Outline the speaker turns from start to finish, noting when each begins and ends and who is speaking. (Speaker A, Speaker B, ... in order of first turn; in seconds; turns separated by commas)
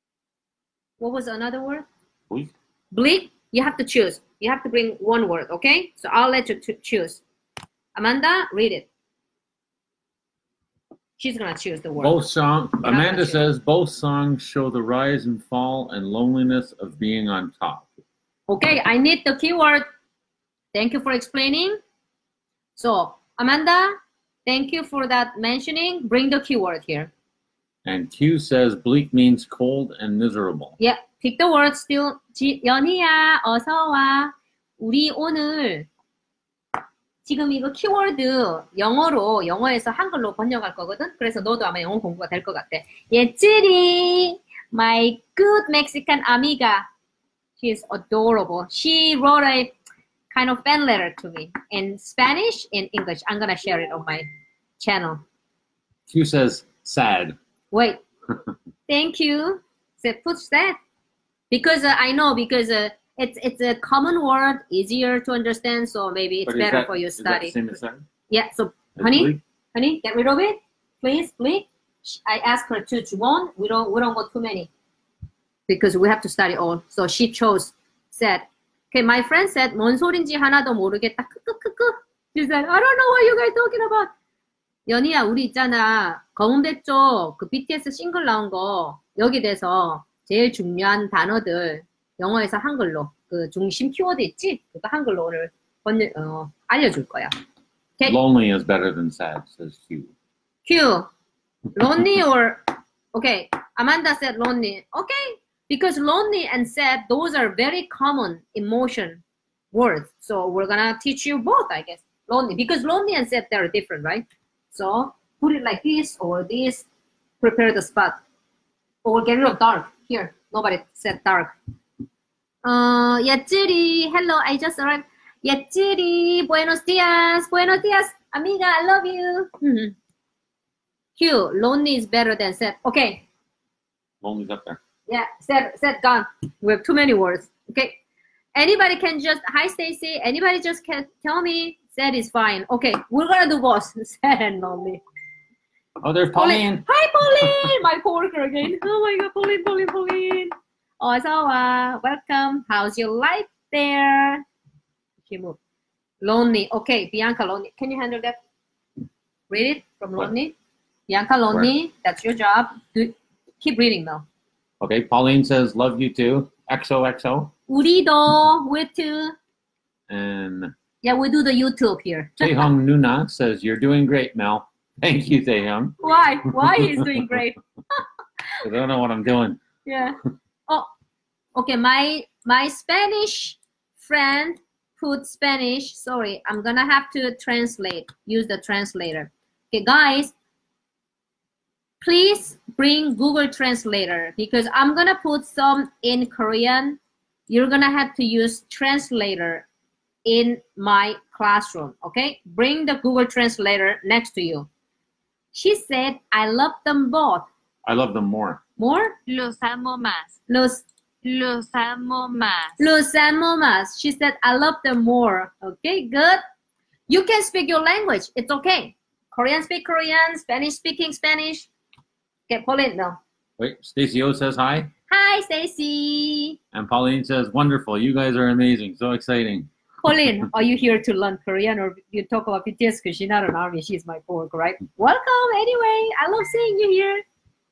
Speaker A: 1.0-1.9, Speaker A: 2.9-7.2, Speaker A: 8.0-8.9, Speaker A: 11.2-12.1, Speaker B: 12.0-17.9, Speaker A: 12.8-13.4, Speaker A: 18.5-19.9, Speaker A: 20.7-21.8, Speaker A: 22.8-27.1, Speaker B: 27.8-30.8, Speaker A: 30.8-35.9, Speaker A: 37.2-46.9, Speaker A: 47.6-49.7, Speaker A: 50.3-54.2, Speaker A: 54.8-55.2, Speaker B: 56.1-57.4, Speaker A: 57.7-58.0, Speaker A: 58.9-60.8, Speaker A: 61.5-67.5, Speaker B: 66.5-68.0, Speaker A: 68.3-74.7, Speaker B: 69.0-69.4, Speaker A: 75.7-84.1, Speaker A: 84.9-97.3, Speaker B: 98.0-100.1, Speaker A: 100.7-101.1, Speaker A: 101.7-102.6, Speaker A: 103.1-116.8, Speaker A: 117.4-118.2, Speaker A: 119.0-121.5, Speaker A: 122.6-129.9, Speaker A: 131.2-133.2, Speaker B: 134.2-134.8, Speaker A: 135.1-138.0, Speaker A: 138.5-145.0, Speaker B: 146.0-146.8, Speaker A: 146.3-154.4, Speaker B: 147.4-147.7, Speaker A: 155.3-155.6, Speaker A: 156.2-158.4, Speaker A: 159.5-160.5, Speaker A: 161.1-164.2, Speaker B: 164.8-167.5, Speaker A: 167.7-169.3, Speaker B: 170.1-170.7, Speaker A: 171.0-172.7, Speaker B: 172.4-177.2, Speaker A: 176.0-177.6, Speaker B: 178.6-179.6, Speaker A: 179.8-180.2, Speaker A: 181.5-190.3, Speaker A: 192.0-199.7, Speaker A: 200.2-204.7, Speaker A: 205.5-207.5, Speaker B: 207.8-208.6, Speaker A: 208.8-209.2, Speaker C: 209.3-210.3, Speaker A: 210.5-210.8, Speaker C: 211.2-212.9, Speaker A: 212.8-216.4, Speaker A: 217.1-221.7, Speaker A: 222.5-223.2, Speaker B: 223.6-224.9, Speaker A: 225.1-226.6, Speaker B: 226.7-229.7, Speaker A: 230.0-237.2